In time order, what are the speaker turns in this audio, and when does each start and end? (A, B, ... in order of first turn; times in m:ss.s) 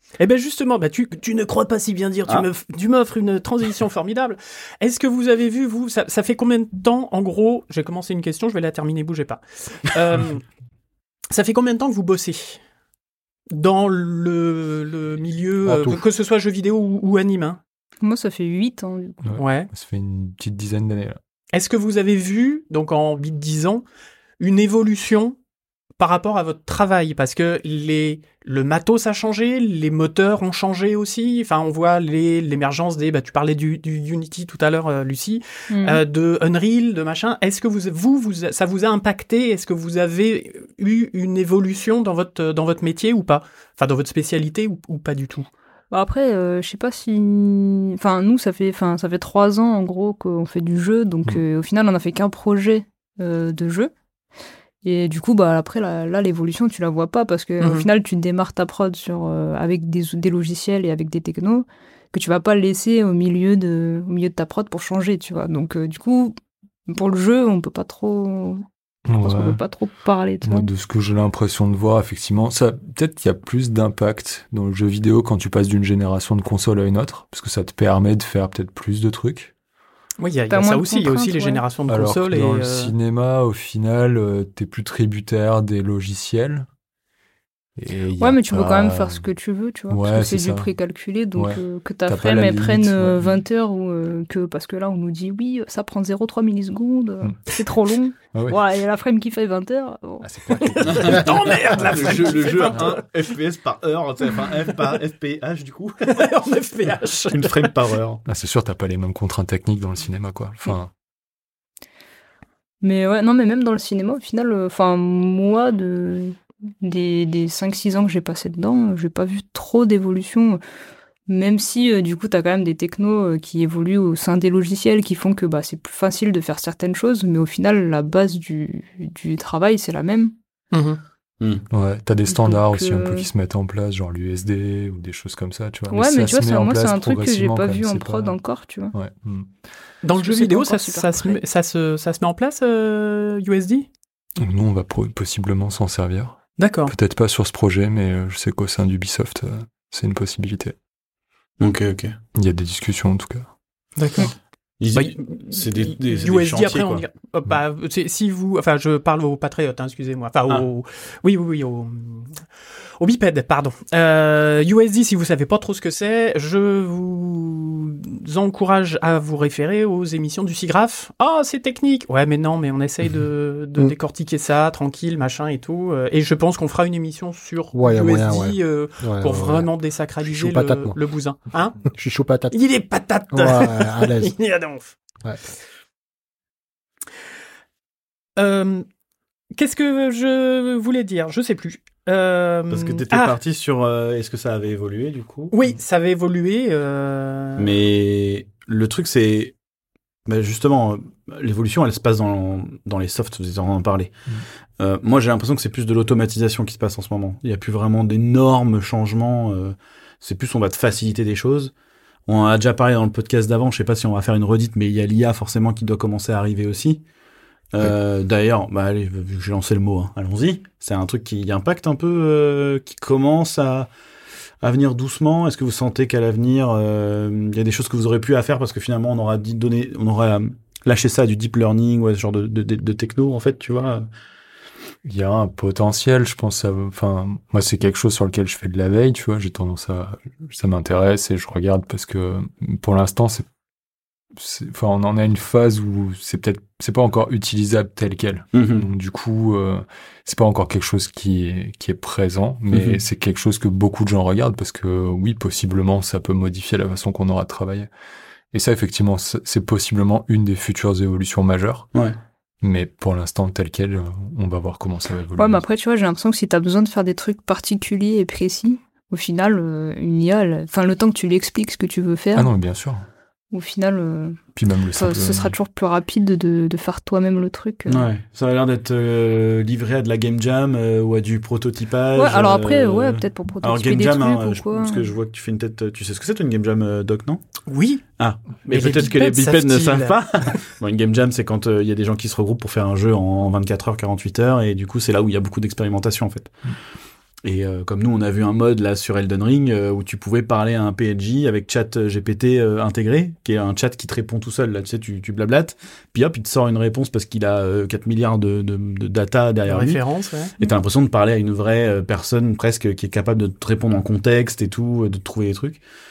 0:00.2-0:10.4 A
0:11.3-0:12.6 A
0:13.5-0:17.6 A
0:15.6-0:16.0 B
0:18.0-0:19.2 C
0:19.2-0:21.2 D
0:19.4-0:19.7 A
0:21.5-0:23.8 A
0:24.4-0:25.4 A
0:26.0-0:45.5 A
0:35.7-0:36.0 C
0:45.9-0:53.9 C
0:54.8-1:06.3 C
0:57.6-0:57.8 A
1:06.9-1:08.6 C
1:09.0-1:09.6 D
1:09.2-1:10.7 C
1:10.4-1:19.5 D
1:20.2-1:22.9 A
1:20.5-1:21.6 C
1:21.9-1:26.7 D
1:27.8-1:29.2 D
1:28.2-1:40.9 C
1:29.9-1:30.7 D
1:31.4-1:33.4 D
1:38.3-1:38.6 D
1:40.2-1:42.5 D
1:40.9-1:46.2 E
1:40.9-1:43.0 A
1:46.0-1:47.7 A
1:47.3-1:48.2 E
1:48.2-1:50.9 D
1:52.8-2:00.6 C
2:01.3-2:10.3 C
2:10.7-2:11.0 A
2:11.4-2:11.6 E
2:11.7-2:18.4 D
2:12.3-2:13.3 C
2:15.9-2:18.9 C
2:18.9-2:19.6 D
2:20.0-2:23.9 A
2:20.2-2:21.4 C
2:24.4-2:30.7 D
2:26.6-2:26.9 A
2:31.6-2:32.1 E
2:32.3-2:33.5 D
2:34.0-2:34.3 A
2:34.8-2:37.0 E
2:34.9-3:01.9 A
2:57.7-2:59.7 B
3:00.2-3:01.0 B
3:01.9-3:02.5 B
3:02.5-3:04.9 A
3:03.3-3:04.4 B
3:08.4-3:08.8 A
3:09.6-3:13.4 A
3:12.7-3:15.5 E
3:15.5-3:17.7 A
3:17.6-3:19.5 E
3:20.2-3:24.2 E
3:24.8-3:31.7 E
3:32.3-3:37.0 E
3:37.7-3:43.9 E
3:44.6-3:54.1 E
3:55.0-4:03.4 D
4:04.3-4:17.9 D
4:08.5-4:08.8 E
4:12.7-4:13.0 E
4:18.5-4:21.9 D
4:22.6-4:25.6 D
4:25.4-4:32.5 C
4:32.4-4:33.0 D
4:33.5-4:34.4 C
4:34.5-4:35.5 D
4:34.9-4:38.1 C
4:37.9-4:47.4 E
4:42.1-4:45.1 C
4:47.7-4:48.0 A
4:48.2-4:56.6 E
4:48.7-4:50.6 A
4:57.4-5:10.0 E
5:09.7-5:10.5 A
5:10.6-5:15.8 E